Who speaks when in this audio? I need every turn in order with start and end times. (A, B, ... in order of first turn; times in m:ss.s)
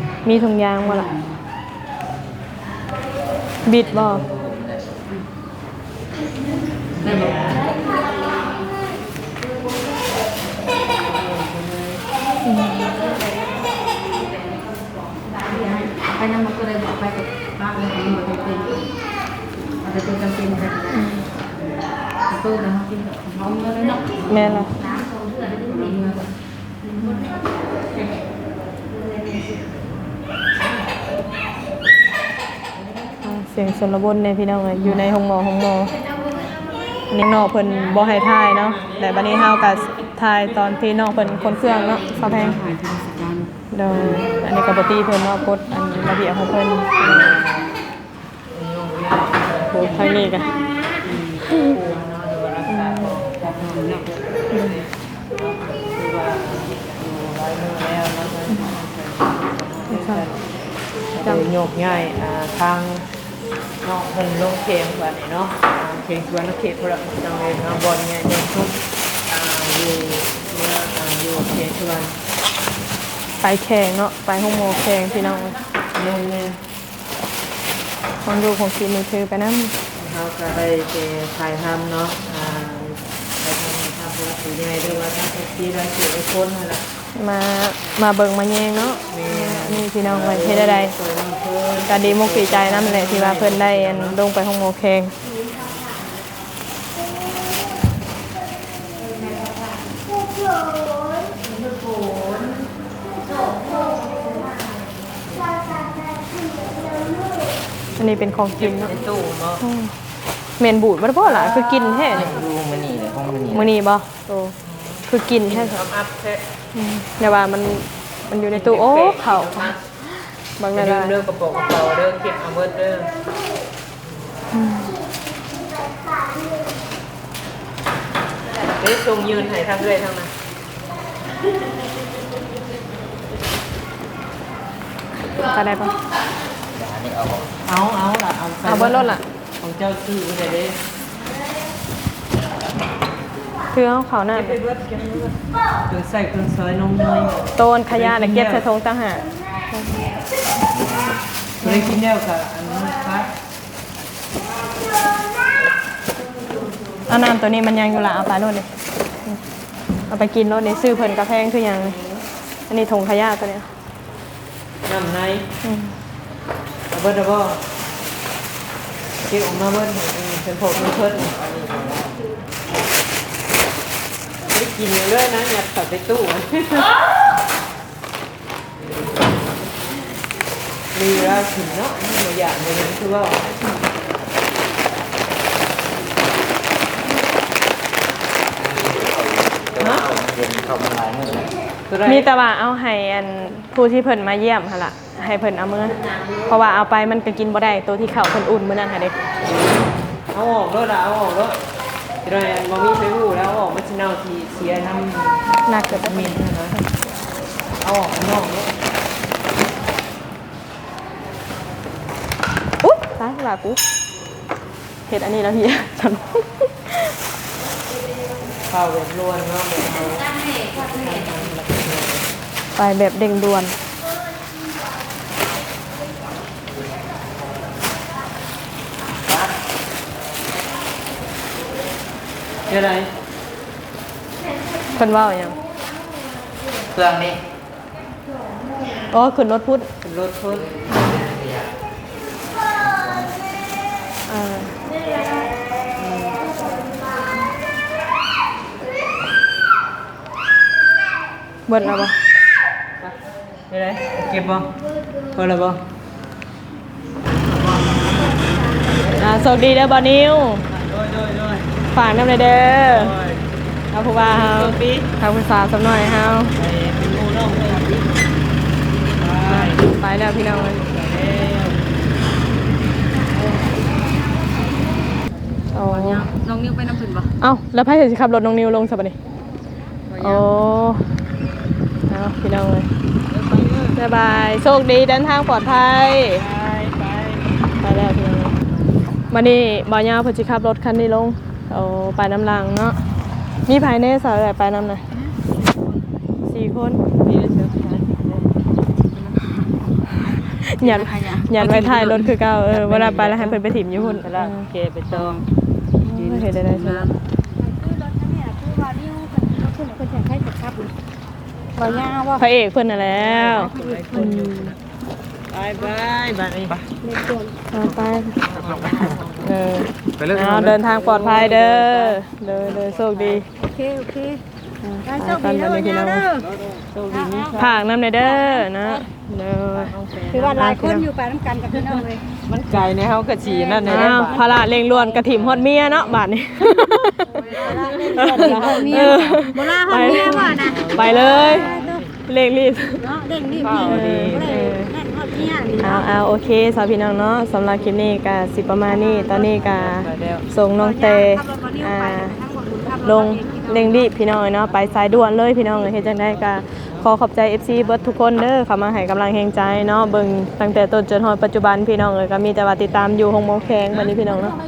0:00.2-0:01.1 A
0:00.8-0:01.3 B
0:03.6-0:04.3 A
0:07.0-0:07.6 C
0:07.0-0:07.6 B
0:11.1-0:12.0 C
0:12.4-0:12.8 A
0:15.4-0:18.8 B
0:19.8-0:21.0 B
0:20.9-0:21.3 A
0:22.3-0:24.7 B
0:24.2-0:24.7 A
0:25.4-0:26.3 B
0:27.0-0:27.4 A
0:33.2-0:36.0 A
0:37.1-0:42.6 A
0:37.8-0:40.6 C
0:41.2-0:42.7 C
0:41.8-0:44.3 B
0:43.7-0:47.4 A
0:47.0-0:47.7 C
0:48.5-0:50.2 C
0:49.7-0:50.5 A
0:51.0-1:00.5 C
0:51.5-0:51.8 A
0:52.7-0:53.2 A
0:54.5-0:54.8 A
0:59.9-1:00.2 A
1:01.1-1:03.0 C
1:01.2-1:01.5 A
1:03.8-1:08.7 C
1:09.3-1:12.2 C
1:13.4-1:15.6 A
1:15.9-1:16.6 C
1:18.2-1:19.7 A
1:19.9-1:26.8 C
1:27.1-1:31.0 A
1:29.1-1:34.2 C
1:31.8-1:35.1 A
1:48.0-1:49.0 A
1:48.5-1:49.6 C
1:49.6-1:49.9 A
1:50.6-1:52.5 A
1:52.3-1:53.6 D
1:53.4-1:54.6 A
1:54.6-1:56.4 C
1:55.1-1:55.9 A
1:56.7-2:01.2 A
1:58.4-1:59.8 C
2:00.7-2:03.1 C
2:04.5-2:05.0 A
2:08.6-2:10.3 C
2:15.4-2:15.9 A
2:16.8-2:17.5 D
2:17.6-2:20.8 C
2:18.6-2:19.2 A
2:23.7-2:24.6 A
2:24.3-2:25.4 C
2:25.9-2:28.6 C
2:27.6-2:29.9 A
2:31.6-2:33.3 C
2:31.6-2:32.0 A
2:37.1-2:38.7 A
2:40.1-2:42.0 A
2:42.7-2:43.7 A
2:44.8-2:45.5 C
2:45.6-2:45.9 A
2:46.9-2:47.6 C
2:49.3-2:52.1 C
2:54.4-2:56.9 C
3:00.9-3:03.6 C
3:08.6-3:11.5 D
3:09.8-3:10.1 C
3:11.9-3:12.3 C
3:12.0-3:19.2 A
3:20.3-3:21.6 C
3:22.2-3:26.8 C
3:25.6-3:26.8 A
3:27.8-3:28.7 C
3:32.8-3:33.8 A
3:35.1-3:37.1 A
3:38.7-3:42.3 C
3:42.8-3:43.7 A
3:52.7-3:53.1 C
3:54.9-3:55.6 A
3:56.9-3:57.4 D
3:59.1-3:59.9 A
4:00.0-4:00.7 C
4:00.6-4:01.6 D
4:04.3-4:04.7 A
4:06.0-4:06.3 C
4:11.7-4:12.2 A
4:13.7-4:14.7 C
4:15.3-4:15.8 C
4:17.8-4:18.4 C
4:19.1-4:20.6 A
4:20.7-4:21.8 C
4:21.9-4:23.1 A
4:22.8-4:23.4 C
4:23.9-4:26.6 A
4:24.2-4:25.1 C
4:26.6-4:28.1 C
4:29.2-4:29.9 C
4:29.6-4:30.8 A
4:30.7-4:31.8 C
4:35.7-4:36.2 A
4:35.8-4:37.3 B
4:37.4-4:39.1 A
4:40.1-4:40.4 B
4:40.2-4:41.1 A
4:42.1-4:42.9 A
4:43.4-4:43.9 C
4:43.9-4:46.5 A
4:46.4-4:47.4 C
4:47.8-4:48.6 A
4:49.3-4:53.0 A
4:53.7-4:55.0 A
4:56.4-4:57.0 A
4:57.1-4:58.6 C
4:59.0-5:02.3 B
5:00.4-5:04.6 A
5:02.7-5:05.4 C
5:05.1-5:05.4 B
5:06.0-5:07.1 A
5:06.2-5:07.2 B
5:07.6-5:10.9 E
5:11.8-5:12.4 E
5:12.4-5:14.6 A
5:13.1-5:14.8 C
5:13.8-5:14.7 E
5:15.5-5:16.8 C
5:17.0-5:17.6 E
5:17.7-5:18.4 A
5:18.3-5:19.5 C
5:19.0-5:23.4 A
5:20.8-5:22.2 C
5:23.5-5:24.4 E
5:24.8-5:26.2 A
5:25.0-5:26.5 E
5:26.7-5:27.8 C
5:27.1-5:27.6 E
5:27.5-5:29.9 A
5:28.2-5:29.0 E
5:29.8-5:30.6 C
5:30.2-5:32.3 E
5:30.5-5:31.0 A
5:32.4-5:34.4 C
5:33.4-5:35.2 E
5:33.8-5:37.5 A
5:37.4-5:42.0 E
5:37.5-5:39.2 C
5:38.1-5:41.7 A
5:40.7-5:42.1 C
5:42.3-5:43.0 A
5:43.0-5:46.1 E
5:43.6-5:44.4 C
5:43.8-5:44.9 A
5:45.8-5:52.3 A
5:48.9-5:49.2 E
5:49.3-5:50.4 C
5:50.8-5:54.1 E
5:53.0-6:04.6 A
5:56.8-5:57.0 C